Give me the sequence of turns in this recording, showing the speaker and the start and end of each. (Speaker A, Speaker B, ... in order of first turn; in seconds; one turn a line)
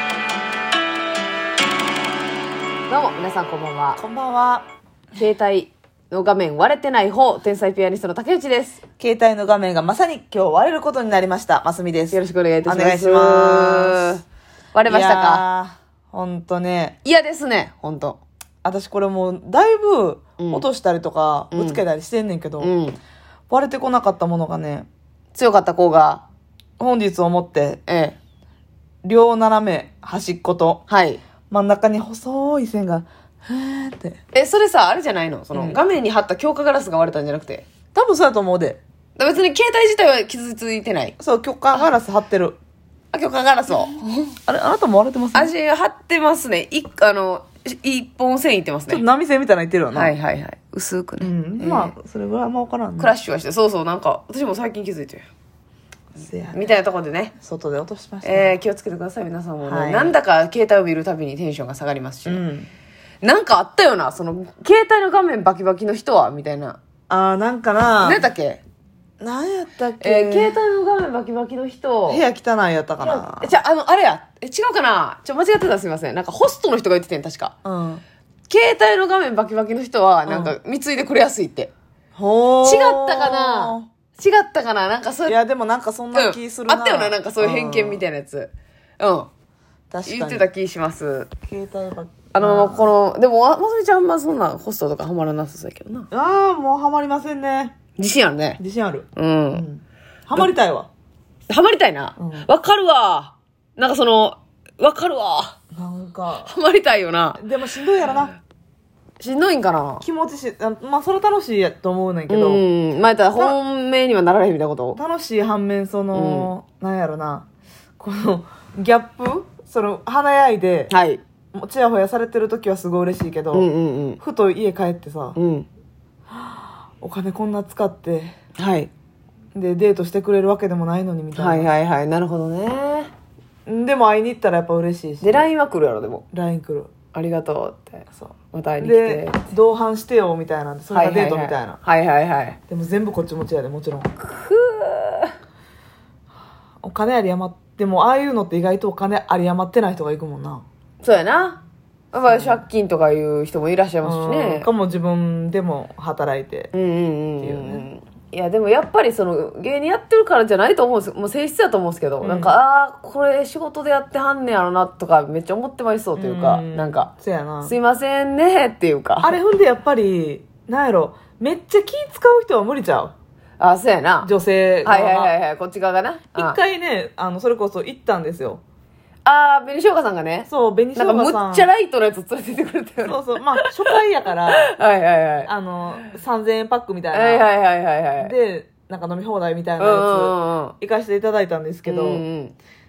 Speaker A: 2.9-4.0
Speaker B: 4.0-4.7
Speaker A: 5.2-8.8
Speaker B: 9.0-14.2
Speaker A: 12.1-14.2
Speaker A: 14.7-15.4
Speaker B: 14.9-17.0
Speaker A: 17.0-18.2
Speaker B: 18.6-22.7
Speaker A: 20.4-20.6
Speaker A: 21.5-21.8
Speaker A: 22.6-23.0
Speaker B: 23.5-24.9
Speaker A: 25.3-26.2
Speaker B: 26.8-27.8
Speaker A: 27.9-28.2
Speaker B: 29.0-30.9
Speaker A: 30.9-31.2
Speaker B: 31.5-34.2
Speaker A: 34.3-37.7
Speaker B: 35.5-35.8
Speaker B: 37.9-38.8
Speaker A: 39.2-41.1
Speaker B: 41.2-42.6
Speaker A: 43.1-44.4
Speaker B: 44.5-45.5
Speaker A: 45.3-49.0
Speaker B: 48.9-50.1
Speaker A: 49.9-51.9
Speaker B: 51.2-53.1
Speaker A: 53.0-55.2
Speaker B: 56.2-56.8
Speaker A: 56.5-57.3
Speaker B: 57.4-58.6
Speaker A: 58.2-62.4
Speaker B: 59.6-60.2
Speaker B: 62.3-62.7
Speaker A: 63.2-66.8
Speaker B: 67.1-68.2
Speaker A: 68.0-68.6
Speaker B: 69.2-70.6
Speaker A: 70.0-72.2
Speaker B: 72.1-73.5
Speaker A: 73.0-77.5
Speaker B: 77.6-78.0
Speaker A: 78.5-81.7
Speaker B: 80.3-80.6
Speaker B: 82.2-83.9
Speaker A: 82.6-85.4
Speaker B: 85.3-88.0
Speaker A: 86.1-89.3
Speaker B: 89.9-90.5
Speaker A: 90.1-91.3
Speaker B: 91.5-92.9
Speaker A: 92.3-96.1
Speaker B: 96.1-97.8
Speaker A: 98.0-98.6
Speaker B: 98.6-100.9
Speaker A: 99.2-99.7
Speaker A: 101.5-105.5
Speaker B: 102.2-102.5
Speaker B: 105.7-106.5
Speaker A: 106.5-107.4
Speaker B: 107.4-108.3
Speaker A: 109.2-110.0
Speaker B: 110.0-112.6
Speaker A: 112.3-115.0
Speaker B: 115.0-117.5
Speaker A: 116.1-116.5
Speaker B: 118.0-120.9
Speaker A: 120.9-121.2
Speaker B: 121.5-123.7
Speaker A: 123.5-124.2
Speaker B: 124.2-125.4
Speaker A: 125.4-125.7
Speaker B: 126.3-128.3
Speaker A: 128.6-128.9
Speaker B: 129.6-131.7
Speaker A: 131.4-133.1
Speaker B: 133.7-135.5
Speaker A: 135.2-136.2
Speaker B: 136.3-136.9
Speaker A: 137.1-139.4
Speaker B: 138.2-141.8
Speaker A: 140.9-142.6
Speaker B: 142.7-144.1
Speaker A: 144.2-145.3
Speaker B: 146.8-150.6
Speaker A: 151.0-151.6
Speaker A: 152.1-154.7
Speaker B: 152.3-152.7
Speaker B: 154.0-156.7
Speaker A: 156.7-167.1
Speaker B: 157.4-157.9
Speaker B: 162.2-162.6
Speaker B: 166.2-167.8
Speaker A: 167.6-169.4
Speaker B: 169.2-173.1
Speaker A: 173.6-174.3
Speaker B: 174.2-175.3
Speaker A: 174.8-176.6
Speaker B: 176.3-178.6
Speaker A: 179.2-183.7
Speaker B: 180.5-181.7
Speaker B: 183.0-184.7
Speaker A: 184.5-185.5
Speaker B: 185.5-187.5
Speaker A: 187.1-188.3
Speaker B: 188.2-192.2
Speaker A: 189.8-190.8
Speaker A: 191.9-192.6